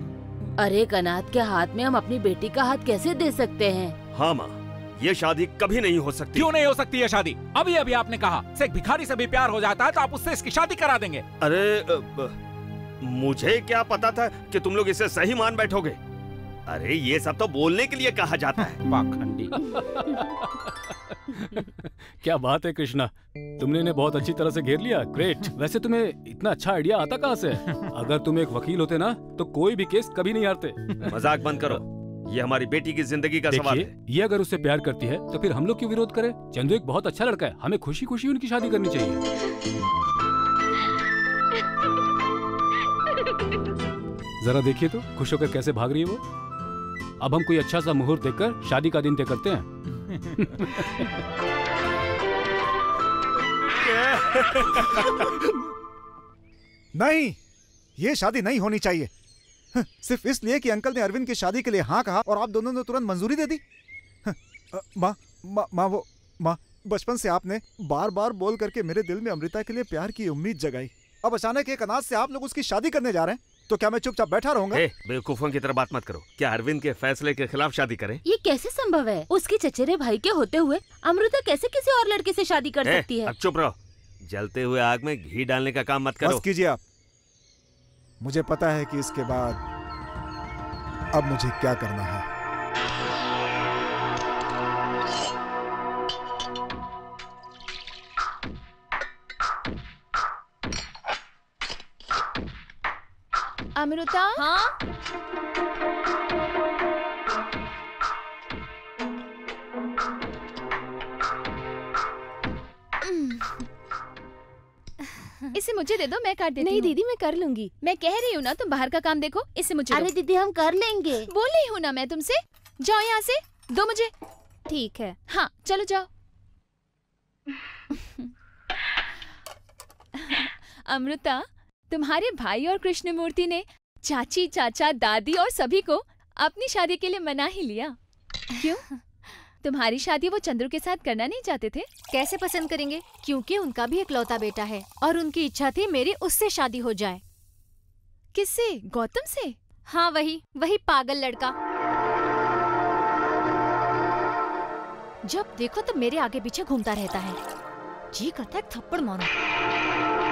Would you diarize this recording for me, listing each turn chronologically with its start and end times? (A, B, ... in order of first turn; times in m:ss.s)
0:00.6-0:04.0 A
0:04.1-0:06.5 B
0:06.4-0:11.3 C
0:11.4-0:12.4 B
0:13.0-0:16.0 B
0:16.7-0:18.7 B
0:18.7-0:19.6 C
0:21.5-0:31.8 D
0:31.1-0:33.9 B
0:33.5-0:39.2 D
0:44.4-0:46.2 D
0:47.2-0:49.7 D
0:50.4-0:51.1 D
0:57.0-0:57.4 E
0:58.0-0:59.1 E
0:59.7-1:03.6 E
1:04.2-1:14.8 E
1:14.7-1:18.2 B
1:18.2-1:23.3 A
1:22.8-1:26.4 B
1:26.2-1:26.8 E
1:28.2-1:29.6 E
1:31.1-1:32.3 E
1:43.8-1:44.4 F
1:53.0-1:53.6 F
1:55.5-1:57.0 F
1:57.8-2:00.1 F
1:59.9-2:01.3 A
2:01.3-2:04.1 F
2:05.3-2:06.1 F
2:10.2-2:18.0 F
2:18.6-2:18.8 F
2:19.6-2:21.9 F
2:22.1-2:27.2 G
2:28.3-2:29.6 F
2:29.9-2:31.5 G
2:35.3-2:37.4 G
2:38.2-2:39.3 G